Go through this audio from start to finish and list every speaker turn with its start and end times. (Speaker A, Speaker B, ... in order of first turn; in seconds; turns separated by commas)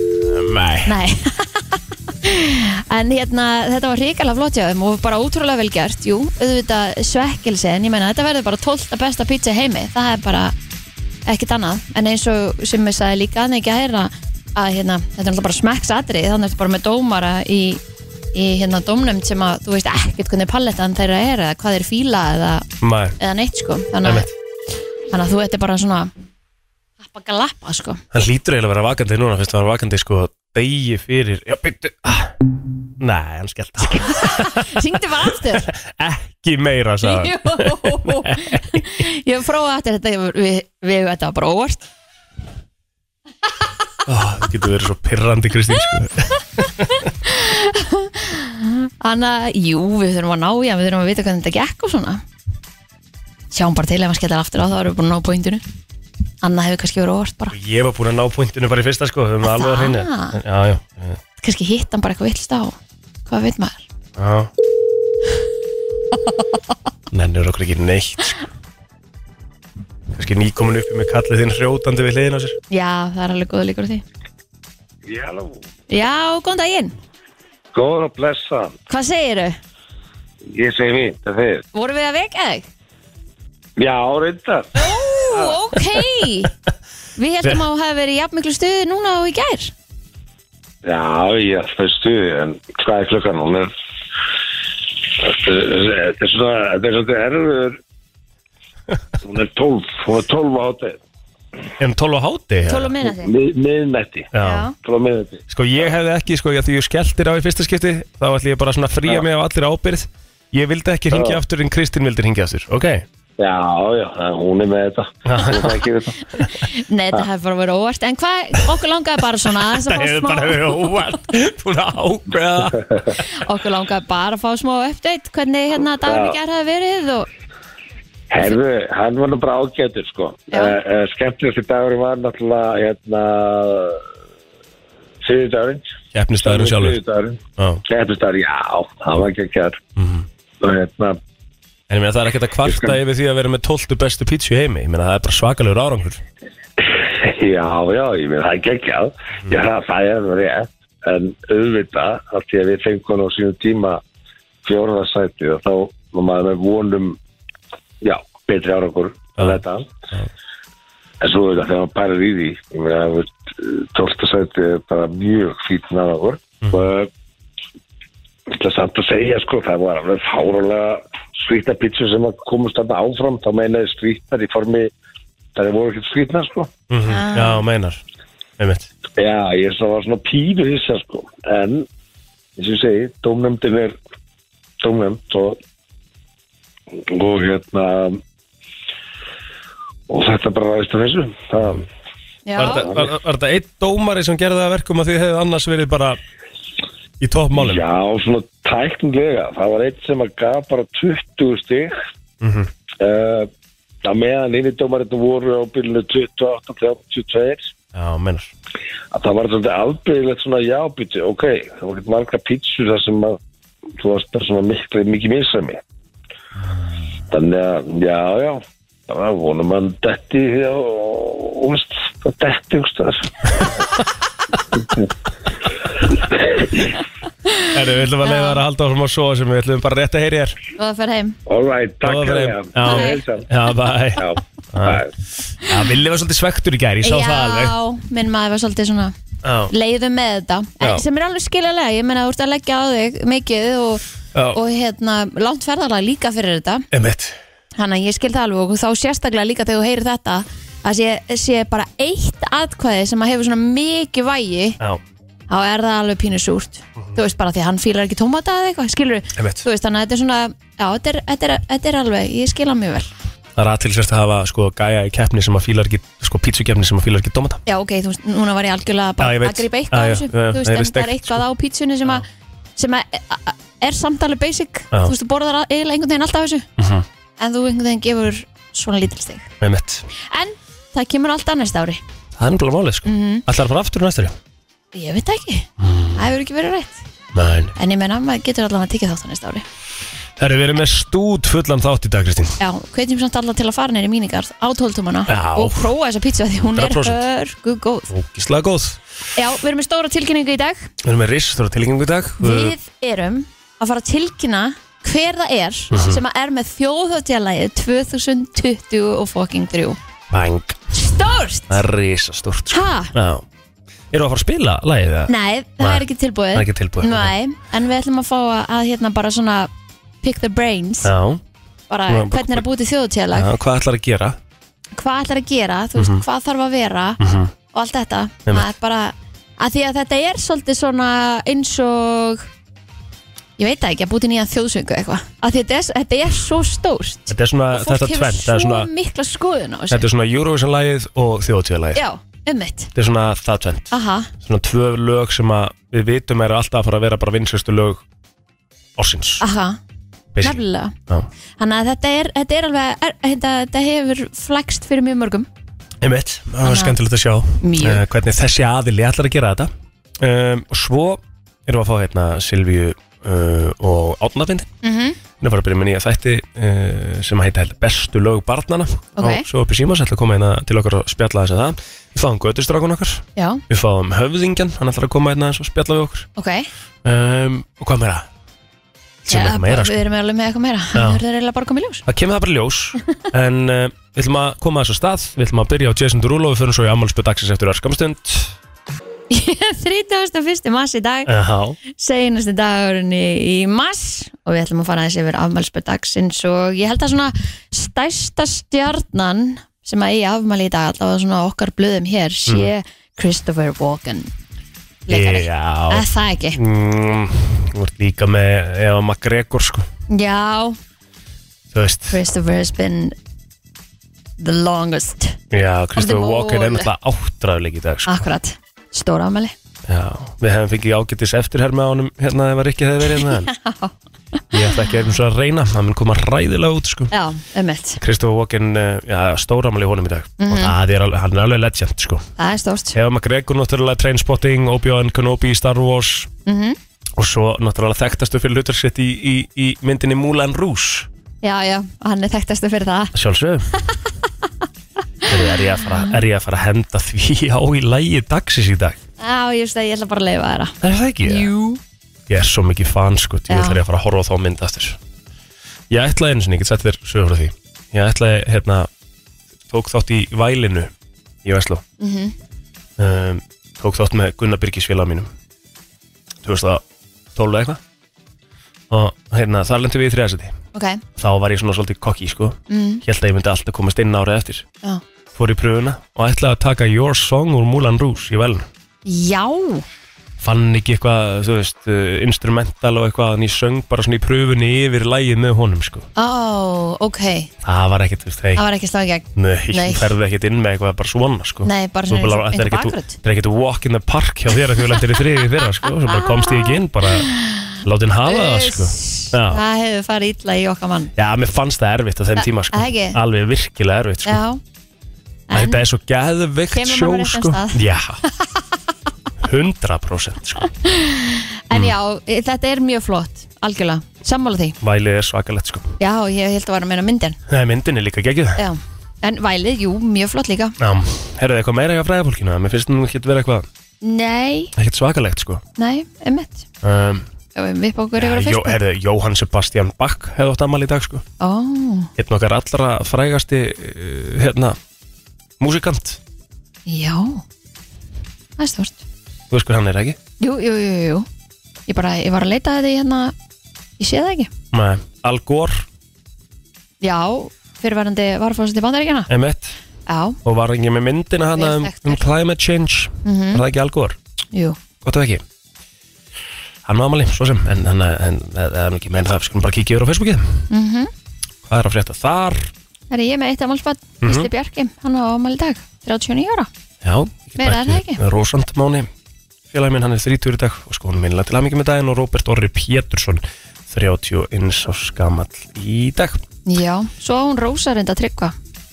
Speaker A: 0.2-0.9, Speaker B: 0.8-10.5, Speaker B: 11.2-17.8, Speaker B: 18.3-22.6, Speaker A: 22.8-23.1, Speaker B: 23.2-24.3, Speaker A: 24.0-24.3, Speaker B: 25.1-26.1, Speaker B: 27.0-28.0, Speaker A: 28.1-32.3, Speaker A: 33.0-39.0, Speaker B: 33.8-35.7, Speaker B: 37.0-41.9, Speaker A: 44.0-47.0, Speaker B: 46.6-52.2, Speaker B: 53.5-55.6, Speaker B: 56.4-57.5, Speaker A: 57.5-61.2, Speaker B: 59.5-60.4, Speaker B: 61.4-63.8, Speaker A: 64.2-64.5, Speaker A: 67.1-68.4, Speaker A: 70.1-72.6, Speaker B: 72.7-74.0, Speaker C: 75.0-75.6, Speaker B: 75.9-76.9, Speaker C: 77.7-78.7, Speaker B: 78.9-79.6, Speaker C: 80.5-81.6, Speaker B: 81.7-82.7, Speaker C: 83.8-85.6, Speaker B: 84.8-86.5, Speaker B: 87.2-89.7, Speaker C: 90.8-93.7, Speaker C: 95.0-97.8, Speaker C: 99.2-101.0, Speaker A: 101.8-103.0, Speaker B: 102.6-103.3, Speaker C: 103.0-105.4, Speaker A: 104.3-104.7, Speaker B: 104.4-104.7, Speaker A: 105.5-113.0, Speaker C: 111.1-111.4, Speaker C: 113.4-116.2, Speaker A: 115.2-115.9, Speaker B: 116.5-120.9, Speaker A: 119.6-123.2, Speaker B: 123.3-127.3, Speaker C: 126.0-126.4, Speaker C: 128.3-134.0, Speaker B: 130.5-130.8, Speaker C: 135.2-135.9, Speaker A: 136.1-137.0, Speaker C: 136.4-139.8, Speaker A: 137.6-137.8, Speaker A: 140.0-140.3, Speaker C: 140.6-141.2, Speaker A: 141.9-146.2, Speaker C: 142.7-142.9, Speaker C: 146.8-154.0, Speaker C: 154.6-157.2, Speaker C: 158.0-159.9, Speaker A: 159.4-160.3, Speaker C: 161.2-167.1, Speaker A: 166.6-166.9, Speaker C: 168.5-174.9, Speaker C: 175.5-176.7, Speaker A: 176.9-178.0, Speaker B: 177.1-177.6, Speaker A: 178.6-178.9, Speaker C: 179.2-181.9, Speaker C: 182.6-183.9, Speaker C: 184.8-185.6, Speaker C: 187.0-188.2, Speaker C: 190.1-191.9, Speaker B: 192.4-192.9, Speaker A: 192.6-196.2, Speaker C: 192.6-193.1, Speaker A: 197.2-197.8, Speaker C: 197.5-201.9, Speaker A: 202.4-202.7, Speaker C: 203.0-203.5, Speaker C: 204.0-207.7, Speaker A: 207.9-208.5, Speaker C: 209.1-213.4, Speaker C: 214.0-215.8, Speaker C: 217.3-223.8, Speaker C: 226.2-226.7, Speaker A: 227.7-230.6, Speaker B: 228.2-228.6, Speaker B: 230.8-231.4, Speaker C: 231.5-233.5, Speaker A: 232.0-235.1, Speaker B: 232.8-233.2, Speaker C: 234.1-235.1, Speaker A: 235.6-237.8, Speaker B: 237.0-239.1, Speaker A: 239.4-239.7, Speaker B: 239.7-244.0, Speaker A: 244.3-244.6, Speaker B: 244.5-246.9, Speaker A: 246.9-247.4, Speaker B: 247.8-254.8, Speaker B: 255.5-263.1, Speaker A: 259.4-259.6, Speaker A: 263.6-267.6, Speaker B: 267.6-272.2, Speaker A: 269.2-271.4, Speaker B: 272.8-276.6, Speaker A: 276.8-277.1, Speaker B: 277.4-279.5, Speaker A: 279.6-280.0, Speaker B: 280.1-282.0, Speaker A: 282.4-284.4, Speaker B: 283.1-283.4, Speaker B: 284.9-287.0, Speaker A: 285.8-286.2, Speaker A: 287.3-287.7, Speaker B: 287.8-289.6, Speaker A: 290.4-292.6, Speaker B: 292.6-298.1, Speaker A: 295.3-295.9, Speaker A: 296.6-297.2, Speaker A: 298.1-299.0, Speaker B: 299.4-300.9, Speaker A: 301.0-302.7, Speaker B: 302.4-310.0, Speaker A: 305.9-306.2, Speaker A: 310.3-310.9, Speaker B: 310.9-311.8, Speaker A: 311.7-313.4, Speaker B: 312.7-313.1, Speaker A: 314.1-317.3, Speaker B: 315.3-319.7, Speaker B: 320.2-321.1, Speaker A: 321.0-321.4, Speaker B: 321.9-323.5, Speaker A: 322.1-322.7, Speaker A: 323.3-324.4, Speaker B: 324.9-327.2, Speaker A: 325.9-326.2, Speaker A: 327.2-327.5, Speaker B: 327.7-332.5, Speaker B: 333.6-340.0, Speaker A: 337.3-338.9, Speaker A: 339.9-342.0, Speaker B: 341.9-342.9, Speaker A: 342.9-348.0, Speaker B: 343.9-344.3, Speaker A: 349.0-349.4, Speaker B: 349.4-349.8, Speaker A: 350.3-351.3, Speaker B: 350.4-350.9, Speaker B: 351.6-355.5, Speaker A: 356.0-364.7, Speaker B: 356.6-357.0, Speaker B: 357.6-358.0, Speaker B: 364.8-365.2, Speaker A: 365.4-376.3, Speaker B: 369.1-369.4, Speaker B: 373.4-373.6, Speaker B: 376.4-376.7, Speaker A: 377.0-378.3, Speaker A: 379.2-380.0, Speaker B: 379.3-382.0, Speaker A: 380.9-381.2, Speaker A: 382.1-388.6, Speaker B: 389.3-391.3, Speaker A: 391.2-391.8, Speaker B: 391.9-404.3, Speaker B: 405.1-406.6, Speaker A: 405.1-409.9, Speaker B: 410.1-410.8, Speaker A: 411.7-412.2, Speaker B: 412.1-413.1, Speaker B: 414.4-415.4, Speaker A: 415.5-418.2, Speaker B: 415.9-416.9, Speaker B: 418.1-419.5, Speaker A: 419.9-423.5, Speaker B: 423.2-423.9, Speaker A: 424.5-427.1, Speaker B: 427.1-428.0, Speaker A: 428.0-432.2, Speaker B: 430.4-430.7, Speaker B: 432.4-433.0, Speaker A: 432.9-436.3, Speaker B: 436.4-436.8, Speaker A: 437.2-441.1, Speaker B: 441.4-443.1, Speaker A: 443.1-443.7, Speaker B: 443.8-444.0, Speaker B: 445.2-446.2, Speaker A: 445.2-449.0, Speaker B: 449.2-451.8, Speaker A: 450.8-451.5, Speaker A: 452.3-455.0, Speaker B: 453.5-453.8, Speaker A: 455.9-458.9, Speaker A: 459.7-460.9, Speaker A: 461.4-461.8, Speaker B: 462.0-462.3, Speaker A: 463.0-465.3, Speaker A: 466.4-466.8, Speaker A: 467.3-467.8, Speaker A: 468.9-470.6, Speaker B: 470.7-471.0, Speaker A: 471.1-474.6, Speaker B: 472.7-473.0, Speaker A: 475.3-478.7, Speaker B: 479.0-479.8, Speaker A: 480.4-486.1, Speaker B: 486.1-487.5, Speaker A: 487.6-488.6, Speaker B: 488.6-490.1, Speaker A: 489.4-497.3, Speaker B: 491.6-493.1, Speaker B: 494.8-495.2, Speaker B: 495.9-501.1, Speaker A: 497.8-499.6, Speaker A: 501.1-504.4, Speaker B: 502.4-503.2, Speaker B: 504.2-504.6, Speaker B: 505.5-505.8, Speaker A: 505.5-508.2, Speaker B: 506.7-507.8, Speaker A: 509.4-510.6, Speaker B: 510.6-514.8, Speaker A: 514.8-515.9, Speaker B: 516.0-517.4, Speaker A: 517.5-518.6, Speaker B: 518.6-520.8, Speaker A: 520.8-523.7, Speaker B: 524.0-524.7, Speaker A: 524.8-525.6, Speaker B: 525.8-526.6, Speaker A: 526.8-527.3, Speaker B: 527.5-528.8, Speaker A: 528.1-531.2, Speaker B: 531.4-532.1, Speaker A: 532.2-534.8, Speaker A: 535.6-536.2, Speaker B: 536.9-537.4, Speaker B: 538.6-539.0, Speaker A: 539.5-540.2, Speaker B: 540.4-541.3, Speaker B: 541.9-543.3, Speaker B: 544.0-544.5, Speaker A: 544.7-545.9, Speaker B: 547.0-549.3, Speaker A: 549.3-549.8, Speaker B: 550.1-550.4, Speaker A: 550.4-554.2, Speaker B: 551.6-552.2, Speaker B: 553.2-553.6, Speaker B: 554.5-554.8, Speaker A: 555.0-555.4, Speaker A: 556.8-560.7, Speaker B: 560.7-561.1, Speaker A: 561.6-562.7, Speaker B: 563.1-566.7, Speaker A: 564.2-564.5, Speaker A: 567.0-569.1, Speaker B: 567.6-568.2, Speaker A: 569.7-576.4, Speaker B: 576.6-578.5